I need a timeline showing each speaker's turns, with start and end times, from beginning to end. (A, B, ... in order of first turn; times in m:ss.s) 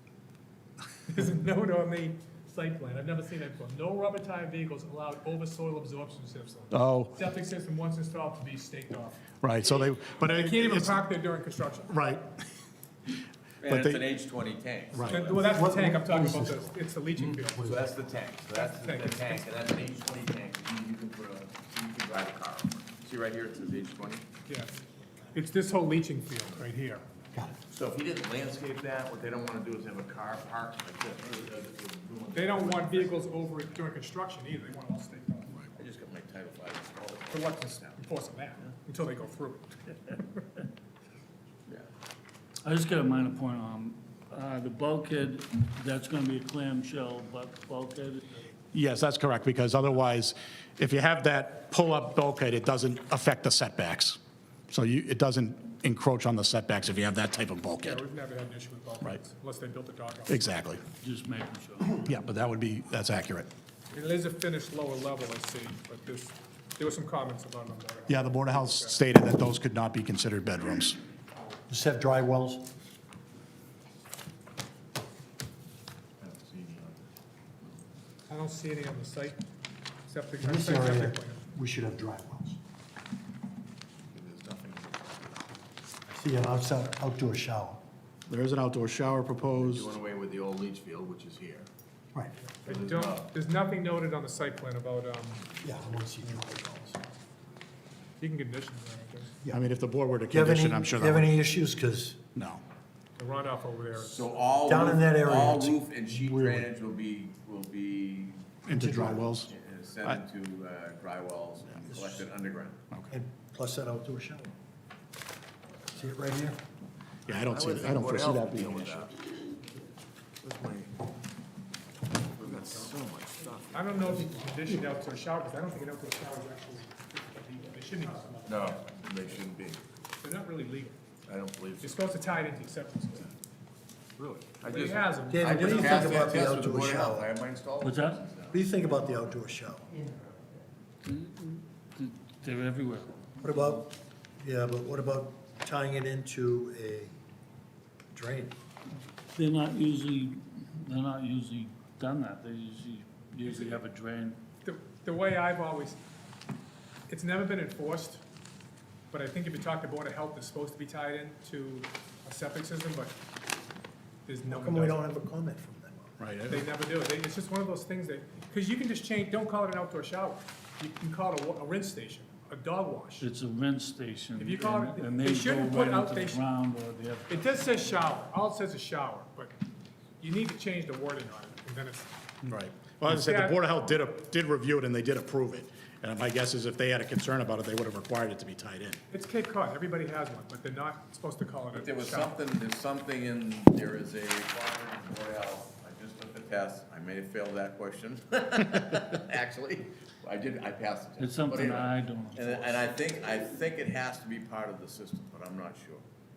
0:01.1-0:12.0 A
0:06.7-0:07.2 B
0:09.4-0:11.0 B
0:11.9-0:12.3 B
0:13.6-0:15.5 C
0:13.7-0:14.0 B
0:14.9-0:15.3 B
0:15.1-0:17.7 A
0:15.4-0:17.9 D
0:17.6-0:24.2 C
0:18.5-0:19.5 A
0:24.4-0:24.8 A
0:25.3-0:27.0 A
0:27.7-0:33.5 C
0:32.3-0:35.7 A
0:35.7-0:38.0 C
0:37.3-0:40.2 A
0:42.6-0:48.5 E
0:48.7-0:54.2 B
0:54.7-0:58.0 B
0:57.8-1:00.5 A
1:00.3-1:00.8 B
1:01.0-1:02.1 E
1:02.0-1:03.5 B
1:03.9-1:09.0 A
1:08.1-1:11.0 B
1:11.7-1:12.7 D
1:16.2-1:17.1 C
1:18.3-1:19.4 A
1:20.1-1:21.4 A
1:20.4-1:22.6 D
1:24.1-1:25.4 C
1:26.1-1:27.8 D
1:28.3-1:29.9 B
1:29.6-1:31.7 C
1:32.6-1:35.5 A
1:32.7-1:33.3 C
1:35.6-1:37.0 D
1:38.2-1:39.3 A
1:39.5-1:41.3 B
1:40.3-1:42.2 D
1:42.4-1:42.6 B
1:43.2-1:44.4 A
1:44.0-1:48.6 C
1:44.7-1:45.8 D
1:46.2-1:46.6 B
1:48.7-1:49.5 B
1:48.7-1:49.3 D
1:49.4-1:52.8 C
1:51.9-1:52.2 D
1:53.1-1:54.5 D
1:55.9-1:56.6 D
1:57.3-1:59.1 B
1:57.3-1:59.1 C
2:00.4-2:01.0 C
2:02.3-2:04.2 C
2:03.7-2:08.8 A
2:08.5-2:09.8 C
2:10.2-2:11.0 A
2:11.3-2:12.0 C
2:11.8-2:13.3 A
2:14.2-2:19.4 C
2:14.6-2:16.4 A
2:15.3-2:17.3 D
2:17.8-2:18.2 E
2:18.5-2:19.9 D
2:21.0-2:23.2 E
2:23.4-2:27.1 D
2:28.1-2:28.6 D
2:29.3-2:34.4 E
2:33.5-2:33.7 A
2:34.6-2:36.0 A
2:37.1-2:38.2 A
2:39.1-2:43.2 A
2:44.2-2:45.0 A
2:44.5-2:46.2 D
2:46.2-2:46.7 B
2:46.5-2:53.3 A
2:53.2-2:57.6 E
2:54.4-2:56.4 A
2:57.3-2:59.5 A
3:00.2-3:02.1 A
3:02.4-3:09.0 B
3:03.1-3:03.6 A
3:09.1-3:12.3 A
3:11.7-3:26.0 C
3:21.2-3:22.9 E